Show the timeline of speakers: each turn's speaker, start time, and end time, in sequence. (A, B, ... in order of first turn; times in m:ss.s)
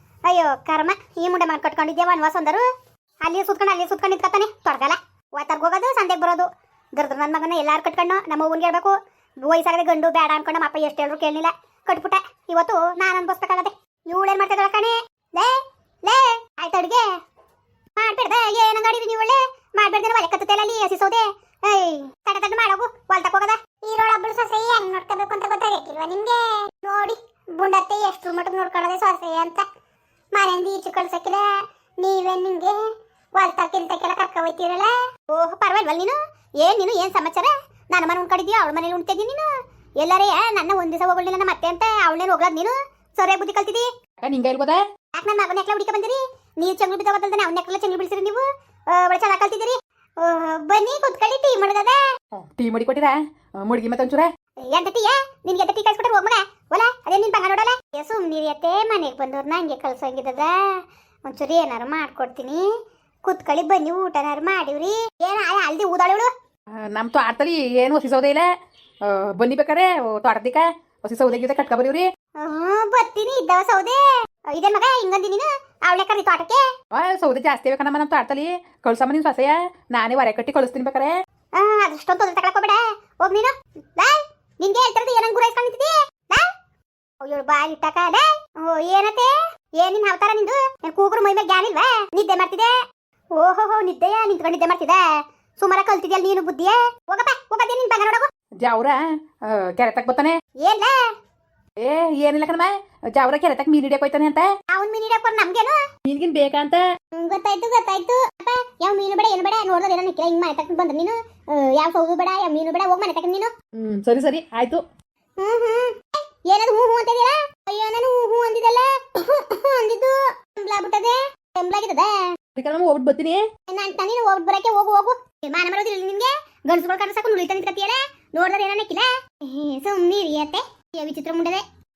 0:00.2-0:02.7 A
0:03.2-0:17.1 A
0:18.0-0:29.6 A
0:30.3-0:43.9 A
0:44.2-0:44.8 B
0:45.1-0:52.0 A
0:52.3-0:54.3 B
0:54.6-1:06.3 A
1:06.8-1:08.5 B
1:09.0-1:12.1 B
1:12.4-1:16.7 A
1:16.9-1:21.2 B
1:21.5-1:26.5 A
1:27.2-1:32.7 A
1:33.3-1:38.3 A
1:38.6-1:40.4 B
1:40.6-1:41.1 A
1:41.8-1:44.5 B
1:44.7-1:45.8 A
1:46.0-1:46.8 B
1:47.1-1:53.5 A
1:53.8-1:54.8 B
1:55.4-2:02.2 A
2:02.6-2:03.4 B
2:03.7-2:11.6 A